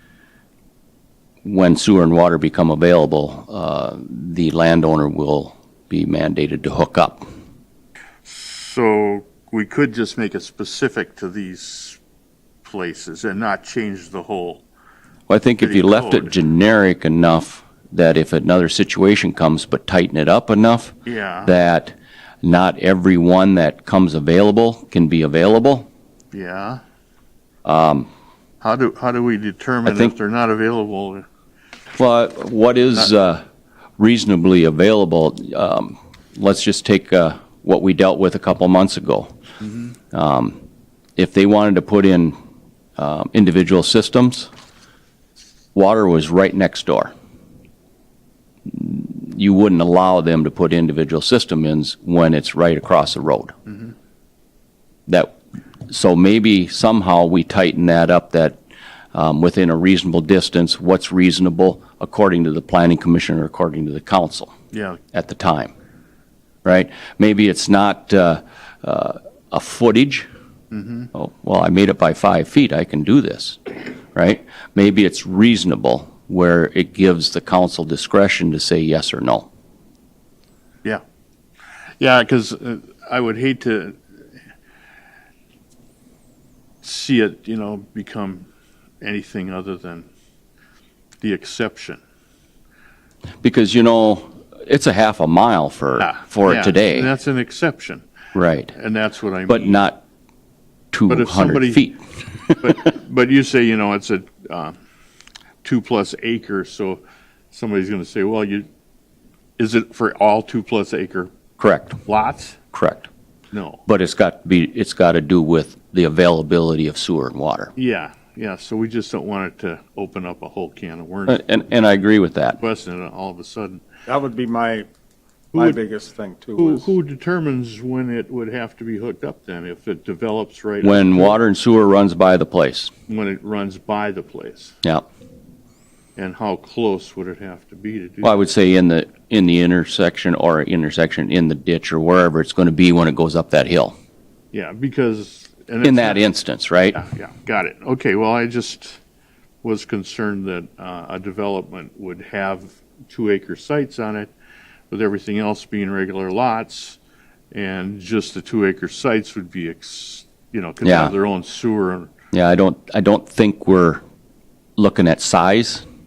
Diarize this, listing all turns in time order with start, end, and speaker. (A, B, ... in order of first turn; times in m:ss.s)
0:01.4-0:07.2 A
0:08.2-0:12.0 B
0:12.6-0:14.6 B
0:15.3-0:25.9 A
0:15.6-0:16.3 B
0:21.0-0:21.5 B
0:26.3-0:26.8 B
0:27.6-0:28.1 A
0:28.6-0:31.2 B
0:29.8-0:30.1 A
0:32.0-0:33.4 A
0:34.0-0:39.3 A
0:40.1-0:40.6 A
0:41.2-0:42.3 A
0:43.0-0:44.5 A
0:45.7-0:47.1 A
0:48.7-0:53.5 A
0:55.1-0:55.3 A
0:55.9-0:58.6 A
0:59.1-1:04.5 A
1:04.7-1:05.0 B
1:05.1-1:05.7 A
1:06.6-1:10.3 A
1:10.7-1:11.1 B
1:11.1-1:19.5 A
1:22.0-1:24.0 B
1:26.8-1:28.5 B
1:29.0-1:30.1 B
1:31.2-1:32.0 B
1:33.4-1:37.1 A
1:36.0-1:38.0 B
1:38.3-1:38.7 A
1:38.7-1:39.8 B
1:39.5-1:40.0 A
1:40.9-1:42.6 A
1:41.1-1:41.9 B
1:42.6-1:44.8 B
1:45.6-1:48.7 B
1:49.6-1:51.3 B
1:51.6-1:52.0 A
1:52.0-1:52.6 B
1:52.7-1:53.1 A
1:53.5-1:53.8 B
1:53.9-1:57.7 A
1:57.8-2:01.4 B
2:01.3-2:02.6 A
2:02.6-2:03.8 B
2:04.1-2:04.8 C
2:05.5-2:05.8 B
2:05.5-2:06.9 C
2:06.6-2:11.4 B
2:10.8-2:12.9 A
2:13.1-2:14.7 B
2:16.2-2:18.4 B
2:18.2-2:23.9 A
2:24.5-2:26.2 B
2:25.8-2:27.0 A
2:26.9-2:29.0 B
2:29.6-2:34.3 B
2:34.9-2:37.0 B
2:37.5-2:42.1 B
2:40.8-2:41.1 A
2:42.3-2:44.0 A
2:44.8-2:45.8 A